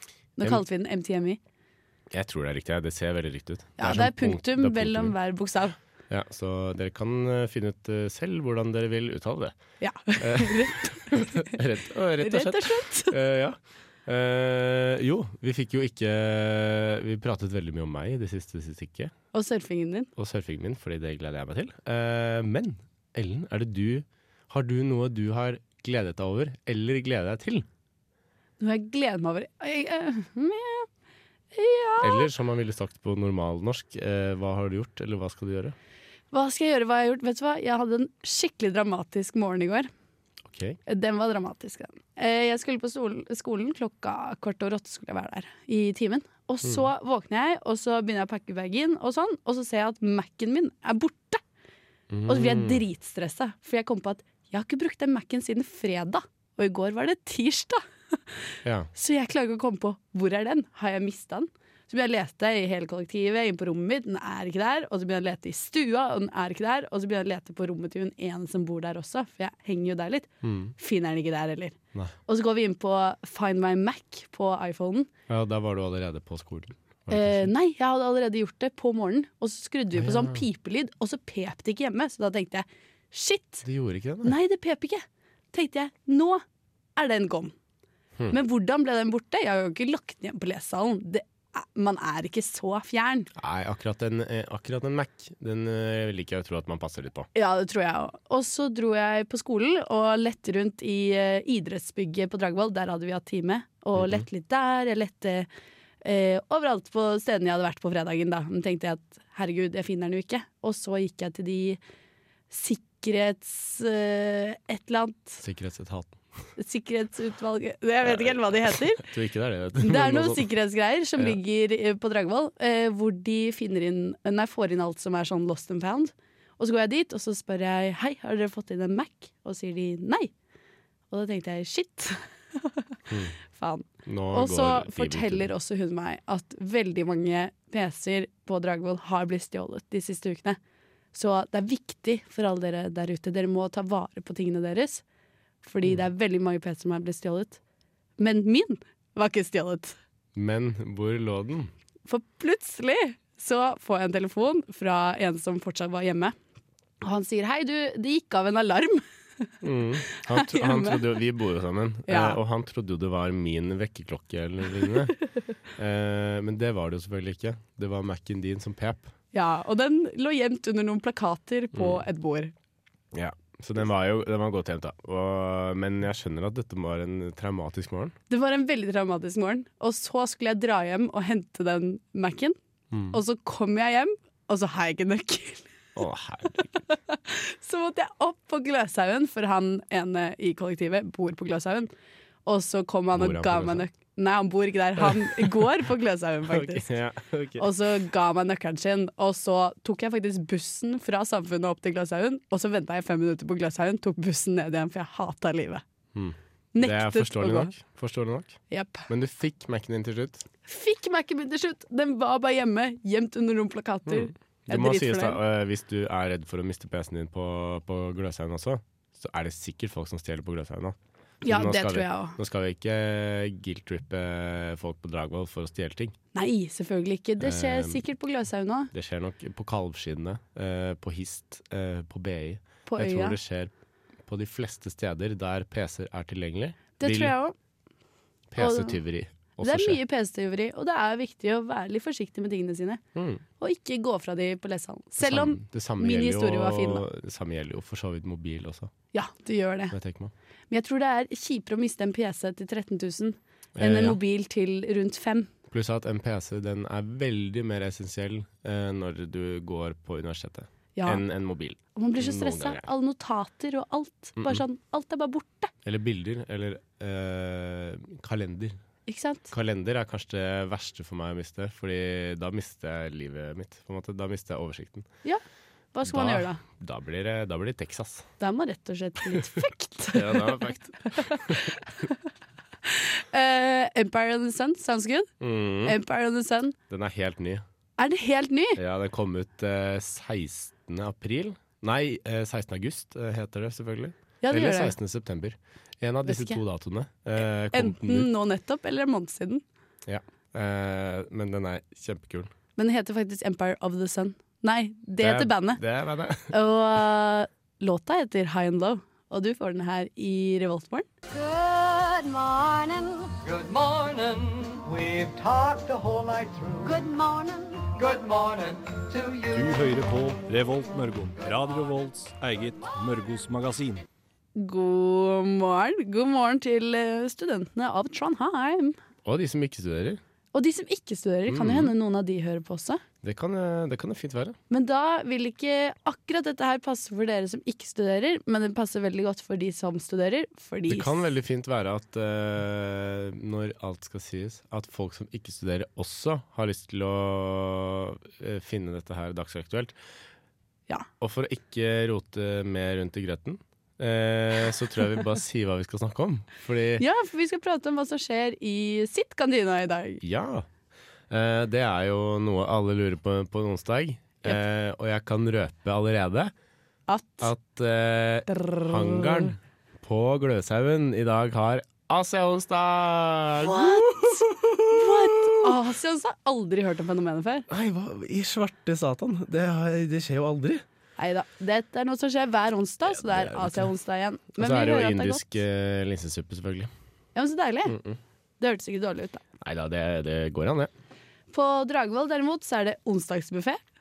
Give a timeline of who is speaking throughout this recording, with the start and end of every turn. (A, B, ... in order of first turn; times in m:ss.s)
0:00.4-0:01.4 A
0:02.1-0:05.2 B
0:03.8-0:05.8 A
0:06.1-0:09.6 B
0:09.8-0:11.5 A
0:10.2-0:19.1 B
0:12.2-0:13.2 A
0:19.3-0:20.1 A
0:20.2-0:27.7 B
0:28.6-0:30.9 A
0:31.5-0:32.3 A
0:32.0-0:35.8 B
0:36.3-0:39.9 A
0:40.5-0:40.8 B
0:40.9-0:51.4 A
0:52.1-0:52.8 B
0:52.3-0:58.4 A
0:58.6-0:58.9 B
0:58.9-1:15.1 A
1:10.4-1:10.7 B
1:15.3-1:17.5 B
1:17.1-1:23.6 A
1:19.9-1:20.4 B
1:23.6-1:24.4 B
1:24.2-1:26.4 A
1:27.0-1:27.5 A
1:28.3-1:33.3 A
1:33.4-1:37.3 B
1:37.3-1:45.5 A
1:44.0-1:44.3 B
1:46.0-1:51.8 A
1:52.5-1:55.4 A
1:55.4-1:56.2 B
1:56.6-1:59.1 A
1:58.0-2:00.5 B
1:59.8-2:10.3 A
2:11.1-2:12.9 A
2:13.1-2:13.3 B
2:13.5-2:20.6 A
2:14.0-2:15.5 B
2:21.1-2:25.0 A
2:25.6-2:27.6 A
2:28.2-2:30.0 A
2:30.4-2:31.7 B
2:32.1-2:36.4 A
2:37.0-2:39.5 A
2:39.6-2:45.2 B
2:40.1-2:41.0 A
2:42.1-2:42.4 A
2:45.8-2:49.1 B
2:49.3-2:52.5 A
2:51.7-2:52.0 B
2:53.1-2:58.2 B
2:58.3-3:02.6 A
3:02.9-3:03.2 B
3:03.1-3:05.7 A
3:06.0-3:06.8 B
3:06.9-3:11.9 A
3:12.5-3:16.9 A
3:13.1-3:13.9 B
3:15.0-3:15.8 B
3:16.5-3:17.7 B
3:17.6-3:25.8 A
3:26.1-3:30.5 B
3:26.8-3:27.7 A
3:28.7-3:29.1 A
3:30.7-3:35.4 A
3:34.1-3:46.2 B
3:41.4-3:42.4 A
3:46.3-3:48.9 A
3:47.4-3:48.0 B
3:48.9-3:53.7 B
3:52.9-3:53.4 A
3:54.3-3:57.4 B
3:57.0-3:57.5 A
3:58.5-4:00.0 B
3:58.6-3:59.0 A
3:59.6-4:03.0 A
4:03.2-4:03.4 B
4:03.6-4:07.0 A
4:05.2-4:08.9 B
4:09.1-4:10.0 A
4:09.9-4:10.3 B
4:10.7-4:15.5 A
4:13.8-4:14.2 B
4:15.7-4:22.8 B
4:21.0-4:21.2 A
4:22.0-4:25.7 A
4:24.4-4:24.6 B
4:25.8-4:28.8 B
4:29.1-4:29.5 A
4:29.5-4:35.1 B
4:35.9-4:36.6 A
4:36.0-4:38.3 B
4:38.4-4:40.6 A
4:40.1-4:41.7 B
4:41.1-4:41.7 A
4:42.9-4:45.3 A
4:45.4-4:46.0 B
4:45.8-4:46.8 A
4:46.9-4:47.6 B
4:48.0-4:48.8 A
4:48.8-4:58.3 B
4:54.4-4:55.0 A
4:56.2-4:56.6 A
4:57.7-4:59.6 A
5:00.1-5:02.5 B
5:02.8-5:05.8 A
5:05.2-5:06.5 B
5:06.5-5:11.1 A
5:11.3-5:13.4 C
5:13.4-5:16.9 D
5:16.8-5:17.9 C
5:18.0-5:19.6 D
5:19.5-5:24.0 E
5:24.6-5:29.0 A
5:29.2-5:30.2 B
5:30.5-5:33.0 A
5:31.5-5:31.9 B
5:33.2-5:34.6 B
5:34.7-5:41.2 A
5:40.9-5:50.0 B
5:51.2-5:57.0 B
5:57.0-6:00.2 A
6:00.2-6:00.7 B
6:01.3-6:06.5 B
6:07.1-6:07.5 A
6:07.4-6:15.8 B
6:08.5-6:09.5 A
6:13.6-6:17.7 A
6:17.7-6:20.8 B
6:21.2-6:25.4 A
6:23.1-6:23.9 B
6:24.6-6:26.9 B
6:27.4-6:28.0 A
6:27.9-6:28.2 B
6:28.6-6:29.4 A
6:29.6-6:30.9 B
6:31.5-6:33.8 A